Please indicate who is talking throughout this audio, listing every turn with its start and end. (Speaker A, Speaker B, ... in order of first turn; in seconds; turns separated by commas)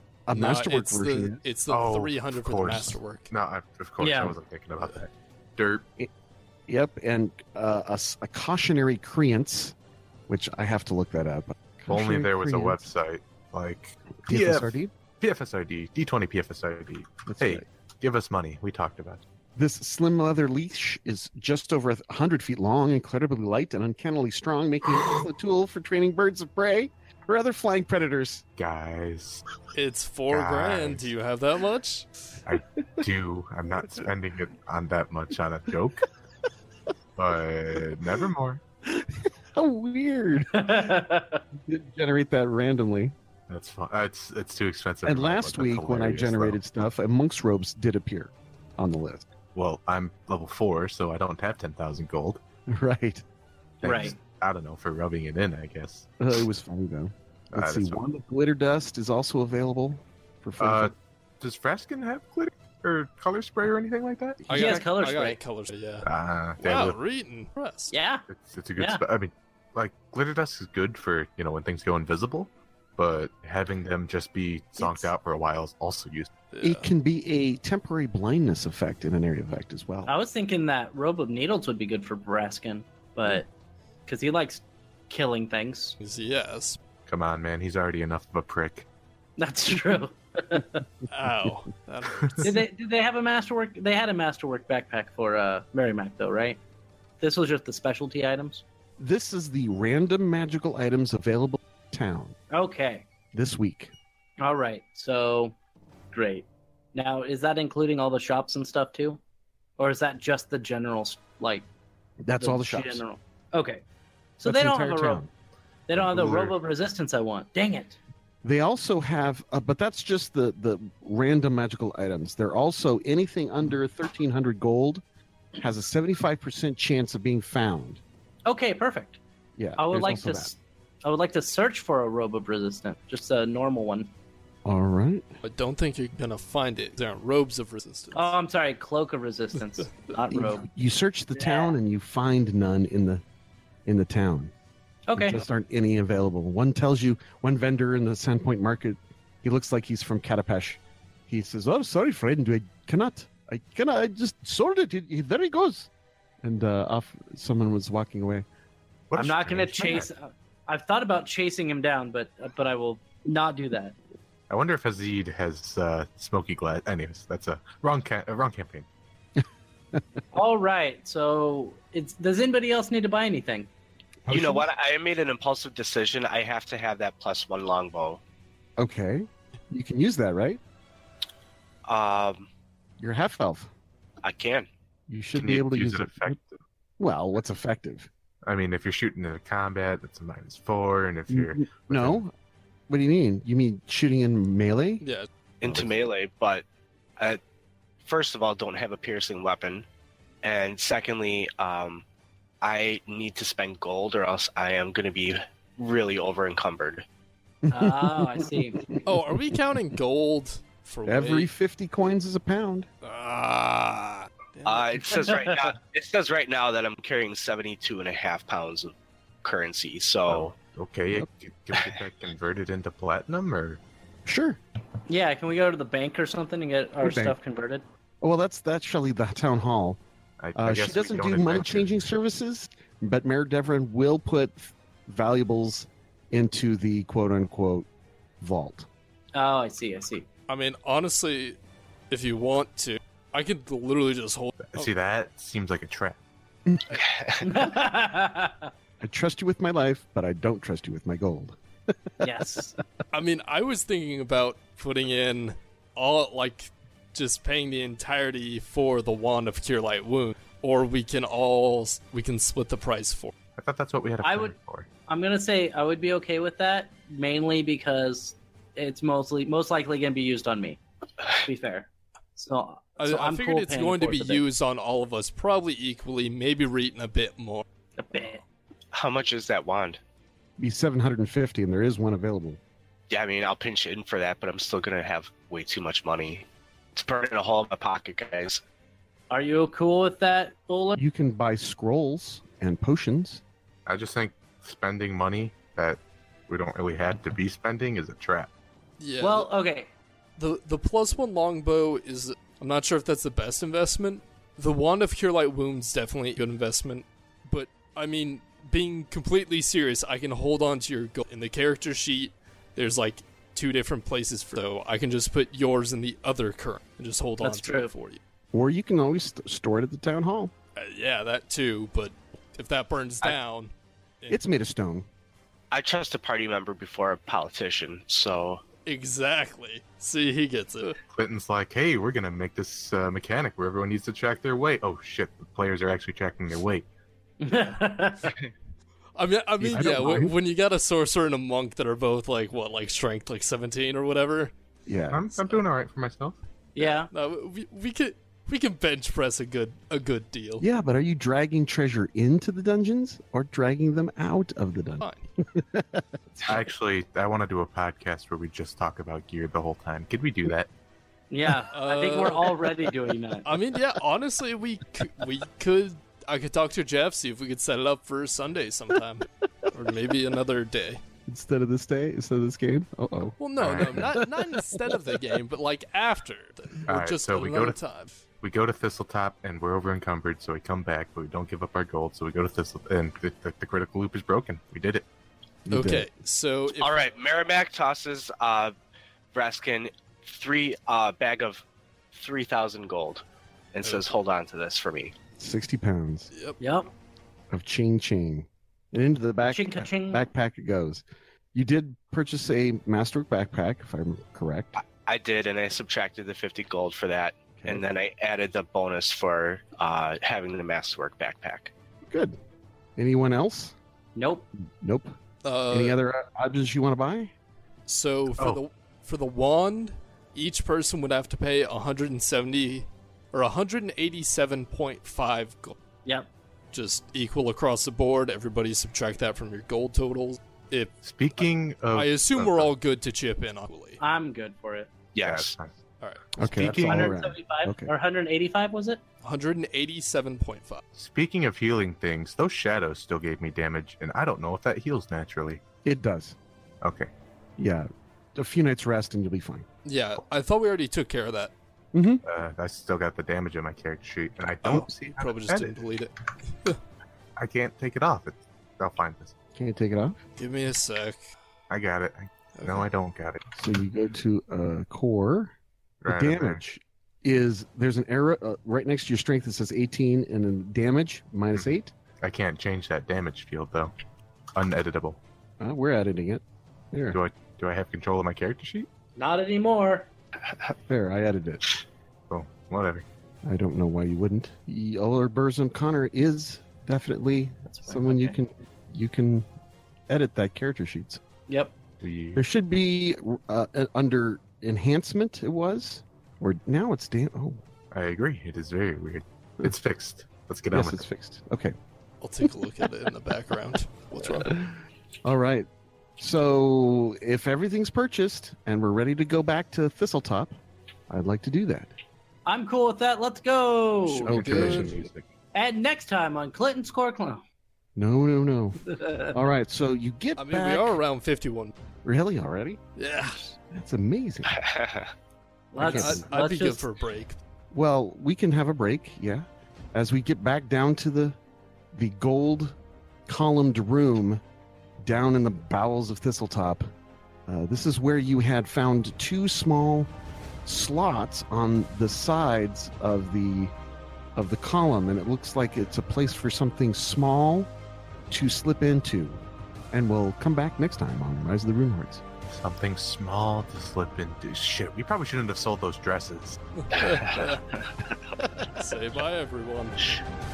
Speaker A: 0.3-1.4, Speaker B: 0.3-3.3, Speaker C: 1.7-5.8, Speaker D: 4.0-4.3, Speaker A: 6.7-9.7, Speaker A: 10.3-12.8, Speaker C: 11.9-19.2, Speaker A: 14.2-14.9, Speaker A: 17.3-17.6, Speaker A: 19.6-28.4, Speaker C: 28.6-29.4, Speaker B: 29.7-32.1, Speaker C: 30.3-31.1, Speaker C: 32.5-36.0, Speaker C: 37.1-38.6, Speaker A: 38.9-40.9, Speaker D: 40.5-41.4, Speaker A: 41.5-43.1, Speaker C: 43.5-46.6, Speaker A: 45.0-49.3, Speaker C: 49.5-52.4, Speaker A: 52.7-53.2, Speaker C: 53.8-56.1, Speaker D: 53.8-54.1, Speaker A: 56.2-60.9, Speaker C: 57.5-58.0, Speaker C: 60.6-64.4, Speaker A: 64.4-64.8, Speaker D: 64.5-65.4, Speaker B: 64.5-67.9, Speaker C: 66.0-67.0, Speaker D: 67.9-68.2, Speaker C: 68.3-76.3, Speaker D: 68.8-69.0, Speaker A: 74.8-75.1, Speaker B: 76.5-76.9, Speaker A: 76.6-80.1, Speaker D: 80.0-83.5, Speaker D: 84.0-86.0, Speaker B: 86.0-86.8, Speaker C: 87.0-88.8, Speaker D: 89.4-90.8, Speaker B: 91.1-92.5, Speaker D: 92.4-96.6, Speaker D: 97.2-98.6, Speaker A: 99.0-102.3, Speaker D: 102.5-103.0, Speaker A: 103.3-103.9, Speaker D: 104.4-105.5, Speaker D: 106.1-109.2, Speaker D: 109.8-111.7, Speaker A: 112.2-113.0, Speaker D: 112.4-113.8, Speaker D: 114.4-115.2, Speaker A: 114.4-115.3, Speaker D: 115.9-118.0, Speaker A: 116.0-116.5, Speaker A: 118.4-125.0, Speaker A: 125.6-128.0, Speaker D: 128.4-129.2, Speaker A: 129.6-130.5, Speaker D: 129.8-134.1, Speaker A: 134.6-135.2, Speaker B: 135.4-138.3, Speaker D: 138.1-140.7, Speaker A: 140.3-143.2, Speaker D: 141.3-141.8, Speaker A: 143.8-144.5, Speaker D: 145.1-145.4, Speaker A: 145.2-155.9, Speaker A: 156.4-158.4, Speaker C: 159.1-160.1, Speaker D: 159.2-164.0, Speaker C: 164.5-168.8, Speaker D: 170.3-173.7, Speaker A: 174.3-174.7, Speaker E: 174.3-178.2, Speaker A: 178.8-180.6, Speaker E: 181.9-182.5, Speaker A: 183.0-183.7, Speaker E: 184.2-184.7, Speaker A: 185.1-186.3, Speaker C: 185.3-186.6, Speaker A: 187.0-188.1, Speaker C: 188.4-192.2, Speaker A: 191.3-192.3, Speaker A: 192.9-195.0, Speaker B: 195.0-195.3, Speaker E: 195.6-196.6, Speaker C: 195.6-195.9, Speaker E: 198.0-199.8, Speaker E: 200.4-202.0, Speaker E: 202.6-207.0, Speaker A: 207.6-209.0, Speaker D: 207.7-208.8, Speaker B: 209.0-211.5, Speaker A: 211.1-212.9, Speaker B: 213.0-215.2, Speaker E: 214.6-220.5, Speaker D: 215.2-215.6, Speaker C: 220.3-223.8, Speaker A: 224.2-224.6, Speaker D: 225.1-227.8, Speaker A: 227.0-227.3, Speaker A: 228.2-230.0, Speaker C: 230.4-231.9, Speaker A: 230.5-237.8, Speaker A: 238.4-238.9, Speaker D: 239.3-240.2, Speaker B: 240.5-241.6, Speaker B: 242.1-244.9, Speaker C: 244.6-246.2, Speaker E: 246.9-247.5, Speaker D: 247.4-248.7, Speaker A: 249.0-252.3, Speaker D: 252.2-252.8, Speaker B: 253.1-263.3, Speaker C: 263.6-264.9, Speaker D: 264.2-264.5, Speaker D: 265.1-274.4, Speaker B: 273.0-277.6, Speaker D: 278.0-278.4, Speaker E: 278.9-280.0, Speaker A: 280.6-282.6, Speaker E: 283.1-288.6, Speaker D: 289.3-291.0, Speaker A: 291.0-293.4, Speaker C: 293.9-298.5, Speaker B: 299.0-299.5, Speaker D: 299.2-299.9, Speaker B: 300.4-318.2, Speaker D: 317.4-317.9, Speaker A: 318.5-320.5, Speaker B: 320.8-323.7, Speaker A: 324.3-325.1, Speaker E: 325.7-328.6, Speaker B: 328.9-331.0, Speaker C: 331.1-336.9, Speaker D: 337.4-338.3, Speaker B: 339.1-344.5, Speaker A: 339.6-340.3, Speaker C: 339.7-340.3, Speaker A: 344.9-345.6, Speaker C: 345.1-346.4, Speaker D: 346.7-347.1, Speaker B: 346.8-350.6, Speaker A: 350.6-356.6, Speaker C: 356.5-360.7, Speaker D: 361.3-363.5, Speaker B: 361.7-362.6, Speaker B: 363.4-371.0, Speaker A: 371.2-375.2, Speaker B: 373.4-378.2, Speaker C: 373.6-374.1, Speaker C: 376.9-377.8, Speaker C: 378.4-385.1, Speaker A: 385.7-386.1, Speaker B: 385.7-387.1, Speaker E: 386.8-388.7, Speaker E: 389.3-395.1, Speaker A: 395.4-396.3, Speaker B: 396.3-396.6, Speaker D: 396.6-396.9, Speaker A: 397.5-404.8, Speaker D: 399.5-400.2, Speaker E: 404.8-411.7, Speaker A: 407.6-407.8, Speaker A: 412.1-412.4, Speaker A: 412.9-413.7, Speaker D: 414.1-414.4, Speaker A: 414.8-415.1, Speaker B: 415.4-416.0, Speaker A: 415.7-417.3, Speaker B: 417.9-425.7, Speaker C: 418.4-418.6, Speaker B: 426.7-434.0, Speaker C: 431.0-432.7, Speaker D: 434.0-434.9, Speaker E: 435.1-435.6, Speaker C: 435.2-435.7, Speaker B: 436.0-436.4, Speaker A: 436.4-437.9, Speaker C: 436.4-437.1, Speaker D: 436.8-439.0, Speaker B: 439.2-440.8, Speaker C: 440.9-445.6, Speaker A: 445.8-446.4, Speaker C: 446.8-447.1, Speaker A: 447.6-449.6, Speaker B: 449.8-451.5, Speaker A: 451.9-452.2, Speaker C: 452.2-455.7, Speaker B: 454.6-456.1, Speaker C: 457.4-459.3, Speaker A: 459.5-460.2, Speaker B: 460.4-461.2, Speaker C: 461.7-463.4, Speaker B: 462.6-462.9, Speaker A: 463.5-465.5, Speaker C: 466.0-466.6, Speaker A: 466.1-471.9, Speaker C: 472.2-473.9, Speaker C: 474.5-475.2, Speaker A: 475.6-477.2, Speaker C: 477.1-478.9, Speaker D: 479.1-480.1, Speaker A: 480.8-481.6, Speaker C: 482.3-483.1, Speaker A: 483.4-489.4, Speaker D: 487.6-488.4, Speaker A: 490.1-491.2, Speaker D: 491.5-491.7, Speaker C: 492.0-492.4, Speaker A: 492.3-497.6, Speaker C: 497.9-501.0, Speaker A: 500.7-501.7, Speaker B: 502.2-504.7, Speaker A: 504.4-505.7, Speaker A: 506.2-510.5, Speaker A: 511.1-511.9, Speaker D: 512.5-514.4, Speaker B: 514.2-515.0, Speaker A: 514.2-515.1, Speaker C: 514.3-515.3, Speaker D: 515.5-517.4, Speaker A: 518.0-521.0, Speaker D: 518.9-519.4, Speaker B: 520.4-521.7, Speaker A: 522.0-524.6, Speaker B: 523.0-523.5, Speaker E: 524.5-525.1, Speaker D: 525.7-526.8, Speaker A: 525.8-526.3, Speaker B: 525.8-527.4, Speaker A: 527.7-531.4, Speaker A: 531.9-532.8, Speaker A: 533.3-534.4, Speaker A: 535.0-536.9, Speaker A: 537.5-540.1, Speaker A: 540.6-543.7, Speaker A: 544.4-547.7, Speaker A: 548.3-552.2, Speaker C: 552.5-556.6, Speaker B: 556.8-557.6, Speaker E: 556.9-558.1, Speaker B: 558.6-560.1